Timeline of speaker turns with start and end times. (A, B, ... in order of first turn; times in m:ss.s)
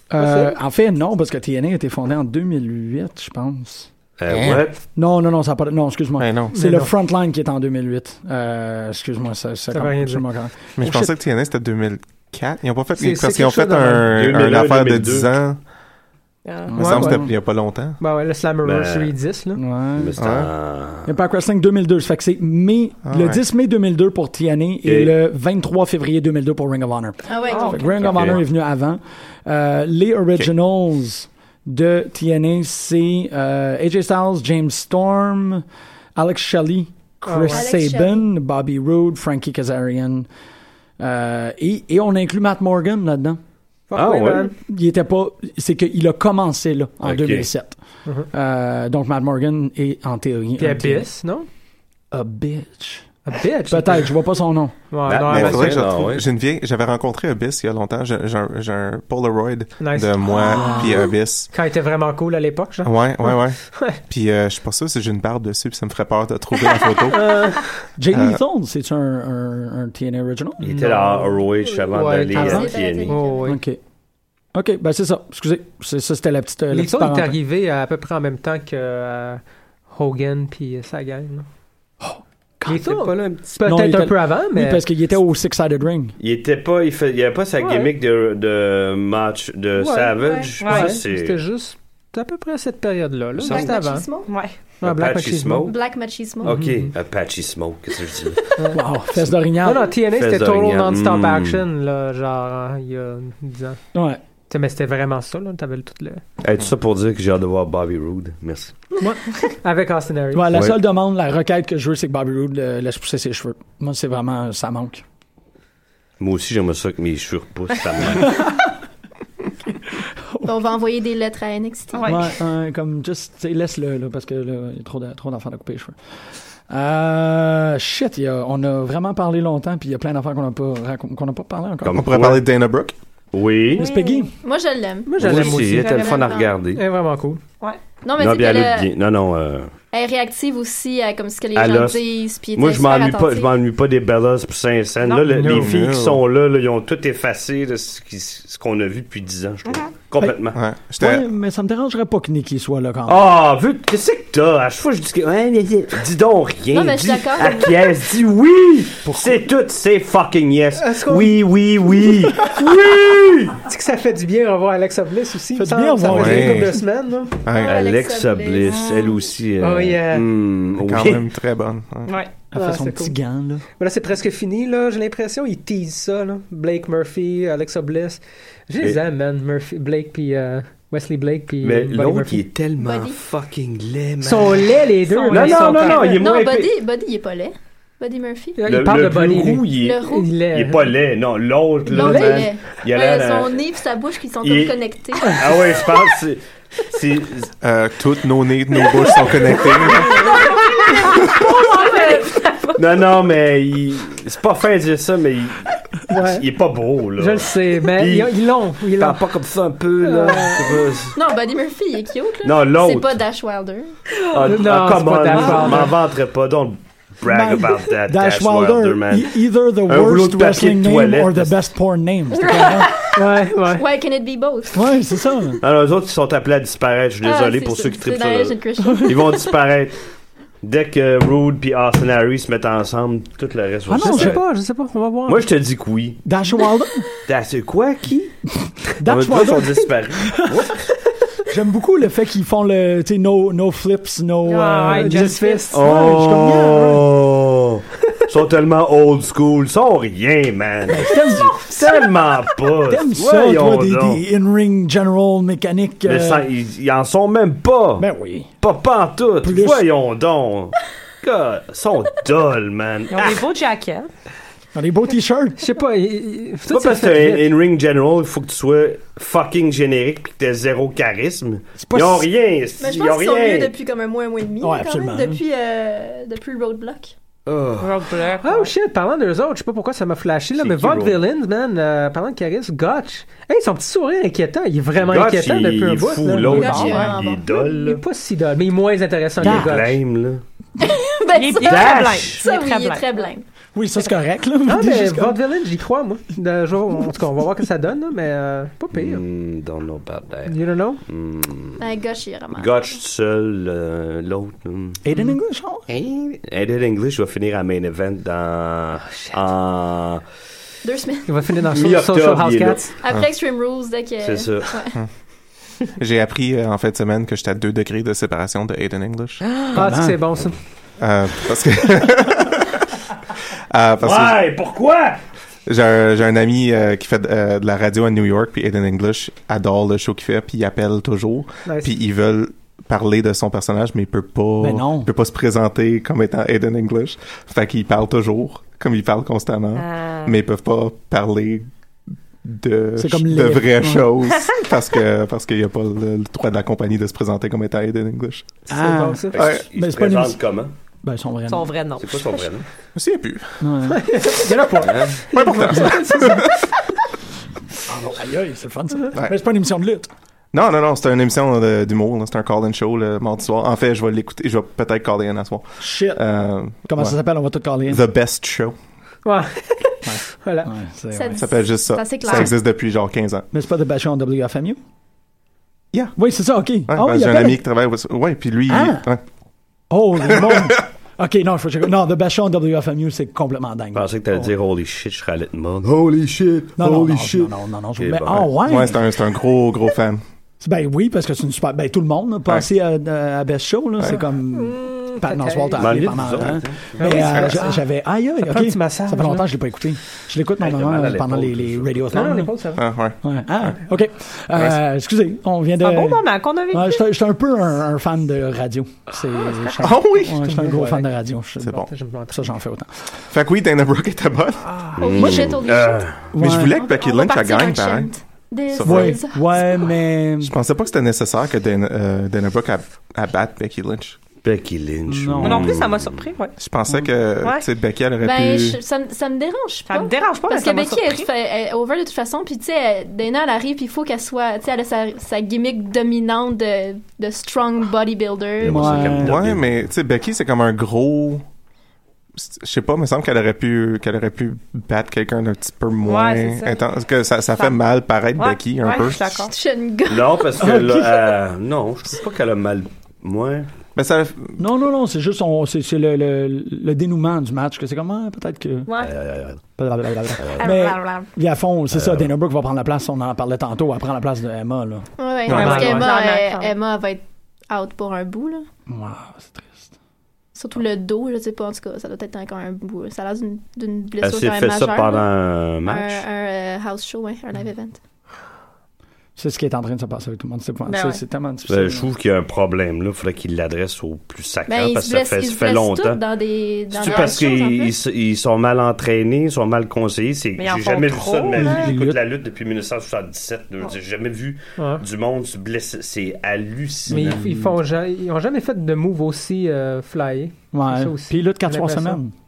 0:00.1-0:03.9 A
0:00.2-0:00.5 B
0:04.2-0:04.8 C
0:04.3-0:04.6 D
0:04.9-0:11.1 A
0:06.2-0:06.5 D
0:06.5-0:06.9 B
0:09.7-0:10.3 B
0:10.8-0:15.6 D
0:13.0-0:14.1 B
0:14.1-0:15.3 C
0:16.4-0:16.8 E
0:16.7-0:17.3 A
0:16.7-0:18.0 D
0:16.8-0:19.6 B
0:18.6-0:19.2 C
0:19.6-0:20.2 A
0:20.0-0:21.1 C
0:20.2-0:20.5 D
0:21.0-0:35.6 A
0:23.1-0:23.4 D
0:24.8-0:25.1 C
0:27.3-0:28.0 F
0:27.5-0:28.2 E
0:28.0-0:28.4 C
0:36.2-0:40.3 A
0:37.2-0:37.6 B
0:37.5-0:38.3 F
0:41.0-0:43.4 A
0:43.9-0:44.5 B
0:43.9-0:44.5 C
0:44.6-0:47.8 A
0:47.0-0:47.5 C
0:48.3-0:51.1 A
0:50.6-0:51.5 B
0:52.1-0:53.1 A
0:53.2-0:54.2 B
0:53.7-0:54.9 A
0:54.9-0:55.8 B
0:55.0-0:56.2 C
0:55.2-1:01.5 D
0:59.8-1:04.0 B
1:00.4-1:01.1 A
1:02.8-1:07.6 D
1:07.1-1:07.7 B
1:08.0-1:10.6 A
1:08.1-1:08.4 D
1:10.6-1:13.6 B
1:10.6-1:13.2 C
1:12.3-1:13.5 F
1:13.4-1:13.8 A
1:14.5-1:17.4 A
1:16.7-1:21.4 B
1:22.0-1:22.9 A
1:22.6-1:24.8 B
1:22.8-1:23.4 C
1:23.6-1:26.1 A
1:26.2-1:31.4 C
1:27.6-1:27.9 B
1:29.8-1:34.1 B
1:30.6-1:31.0 E
1:33.3-1:33.7 C
1:33.4-1:34.3 F
1:34.2-1:34.6 E
1:34.8-1:35.7 B
1:34.8-1:35.7 C
1:35.6-1:36.6 F
1:36.4-1:38.4 C
1:36.4-1:36.9 B
1:38.6-1:38.8 B
1:38.7-1:39.9 A
1:39.6-1:43.8 B
1:40.1-1:41.6 C
1:43.9-1:44.2 A
1:44.5-1:46.2 B
1:46.4-1:48.7 C
1:49.6-1:50.5 B
1:50.3-1:55.0 A
1:50.5-1:50.8 C
1:56.2-1:58.4 C
2:00.4-2:02.2 F
2:01.9-2:02.2 E
2:02.0-2:06.0 A
2:06.7-2:12.0 A
2:11.8-2:12.5 C
2:11.9-2:12.9 D
2:13.3-2:13.8 C
2:13.7-2:14.3 A
2:13.8-2:14.3 E
2:14.4-2:15.1 F
2:15.0-2:17.4 B
2:15.2-2:16.8 C
2:15.3-2:16.6 E
2:18.0-2:18.9 F
2:18.2-2:19.7 C
2:19.9-2:23.5 F
2:21.5-2:30.6 C
2:25.0-2:25.3 E
2:25.3-2:25.8 B
2:25.4-2:26.2 D
2:30.5-2:31.2 D
2:31.0-2:33.2 A
2:33.0-2:43.6 C
2:36.7-2:37.7 F
2:39.0-2:39.3 A
2:40.8-2:41.4 B
2:43.6-2:47.4 B
2:45.5-2:46.8 A
2:46.1-2:46.8 D
2:47.4-2:47.8 D
2:47.5-2:49.1 F
2:47.6-2:51.3 C
2:48.7-2:49.1 E
2:49.6-2:50.3 B
2:50.8-2:52.1 D
2:52.0-2:52.3 E
2:52.5-2:53.6 A
2:52.5-2:53.1 B
2:53.8-3:02.4 B
3:01.6-3:06.7 C
3:02.8-3:03.2 F
3:04.2-3:06.1 B
3:05.1-3:06.2 E
3:06.0-3:08.6 F
3:08.6-3:10.9 B
3:08.6-3:13.6 C
3:09.8-3:10.3 F
3:11.9-3:15.4 F
3:11.9-3:12.5 B
3:14.4-3:17.5 C
3:17.6-3:20.4 D
3:20.0-3:22.8 E
3:21.5-3:22.2 F
3:22.8-3:31.2 C
3:26.1-3:26.4 B
3:27.2-3:29.3 B
3:30.0-3:30.8 B
3:31.1-3:33.9 F
3:32.4-3:33.1 C
3:34.3-3:41.5 C
3:34.4-3:36.0 B
3:37.2-3:42.9 A
3:42.4-3:44.8 F
3:43.1-3:43.8 B
3:44.7-3:45.6 A
3:45.6-3:50.0 C
3:47.2-3:49.5 F
3:50.6-3:54.4 C
3:53.9-3:54.4 A
3:54.0-3:55.4 B
3:55.2-3:56.2 C
3:56.2-3:57.0 A
3:57.2-3:58.3 C
3:59.0-4:00.6 A
3:59.0-4:00.9 C
4:01.5-4:07.0 A
4:04.4-4:05.7 E
4:04.8-4:05.8 B
4:05.7-4:14.2 C
4:10.9-4:11.7 A
4:12.8-4:16.5 A
4:16.0-4:18.1 C
4:18.0-4:18.5 A
4:18.6-4:23.5 C
4:19.4-4:19.8 A
4:23.1-4:24.1 E
4:24.7-4:25.6 A
4:25.6-4:27.5 B
4:26.7-4:33.7 C
4:31.8-4:32.3 A
4:32.8-4:37.1 F
4:34.6-4:35.4 A
4:37.4-4:38.1 C
4:37.8-4:38.7 E
4:38.4-4:47.1 B
4:40.6-4:41.2 C
4:45.0-4:48.0 C
4:46.5-4:47.8 F
4:46.5-4:47.2 E
4:47.8-4:50.0 B
4:49.4-4:50.4 C
4:49.4-4:49.8 A
4:50.8-4:53.4 F
4:51.3-4:53.3 E
4:51.6-4:52.4 C
4:53.7-4:55.4 A
4:54.6-4:59.2 B
4:58.9-5:01.8 C
5:00.5-5:01.0 B
5:01.8-5:02.9 F
5:02.5-5:05.0 C
5:05.0-5:05.9 A
5:05.9-5:10.2 C
5:10.8-5:11.3 F
5:11.3-5:12.9 B
5:11.7-5:12.9 C
5:13.0-5:15.0 F
5:14.2-5:14.9 C
5:15.9-5:19.4 D
5:19.7-5:20.3 A
5:19.7-5:20.6 B
5:21.0-5:22.8 D
5:23.7-5:24.5 D
5:24.0-5:25.2 C
5:25.6-5:41.7 D
5:31.6-5:31.9 B
5:34.6-5:35.1 A
5:39.7-5:40.4 E
5:42.4-5:48.6 D
5:43.0-5:44.1 A
5:48.7-5:50.4 A
5:48.7-5:49.4 B
5:49.3-5:50.7 C
5:49.4-5:49.6 D
5:51.0-5:51.8 A
5:51.5-5:52.6 E
5:52.0-5:52.6 C
5:52.9-5:53.7 D
5:53.6-5:54.1 A
5:53.9-5:56.6 B
5:54.8-5:55.2 C
5:55.3-5:56.6 D
5:57.9-6:00.1 A
6:00.5-6:07.2 D
6:05.8-6:06.2 A
6:06.8-6:08.0 A
6:07.9-6:08.8 D
6:09.2-6:10.7 B
6:10.0-6:11.4 A
6:11.1-6:12.5 F
6:11.3-6:13.5 D
6:13.5-6:14.8 A
6:16.1-6:17.6 A
6:16.9-6:19.2 D
6:18.7-6:19.0 A
6:19.9-6:24.1 A
6:20.3-6:20.6 D
6:23.9-6:28.5 C
6:26.8-6:29.0 A
6:28.6-6:30.2 D
6:30.6-6:42.5 A
6:34.1-6:36.1 B
6:35.8-6:37.2 C
6:37.0-6:37.8 B
6:37.0-6:37.6 D
6:38.4-6:39.5 B
6:40.6-6:42.1 C
6:42.1-6:42.8 B
6:42.7-6:43.8 D
6:43.2-6:53.0 A
6:45.8-6:47.0 E
6:49.8-6:50.5 D
6:50.4-6:51.0 B
6:51.6-6:51.9 D
6:51.6-6:52.5 B
6:53.3-6:54.9 D
6:54.7-6:55.6 A
6:55.0-6:56.3 C
6:55.0-6:56.1 F
6:56.3-6:56.8 A
6:56.4-6:58.1 D
6:56.7-6:59.7 F
6:58.7-6:59.2 D
6:58.8-7:00.5 A
7:00.4-7:04.2 D
7:04.4-7:06.3 C
7:05.1-7:05.8 A
7:05.4-7:06.6 E
7:06.6-7:08.8 D
7:07.4-7:07.7 E
7:08.2-7:19.2 F
7:09.9-7:11.3 E
7:18.6-7:19.7 C
7:18.6-7:19.4 A
7:19.2-7:21.4 D
7:22.4-7:29.5 D
7:26.0-7:26.8 E
7:27.5-7:27.8 E
7:28.4-7:29.5 E
7:29.5-7:30.5 F
7:30.1-7:33.7 C
7:30.6-7:31.2 A
7:33.9-7:34.6 D
7:34.6-7:38.9 A
7:38.9-7:39.2 E
7:39.0-7:39.6 C
7:39.8-7:45.1 A
7:40.4-7:40.7 C
7:40.6-7:41.2 F
7:41.9-7:42.3 C
7:45.2-7:48.6 F
7:45.5-7:46.7 E
7:45.5-7:46.0 B
7:48.9-7:49.9 A
7:50.6-7:55.3 F
7:54.2-7:56.2 C
7:55.8-7:58.0 F
7:59.4-8:02.1 A
8:00.8-8:01.2 E
8:01.7-8:06.2 C
8:04.7-8:07.9 F
8:06.9-8:17.5 C
8:07.0-8:07.4 E
8:10.6-8:12.0 E
8:11.5-8:12.2 A
8:14.8-8:15.0 B
8:17.1-8:22.2 B
8:20.7-8:22.3 A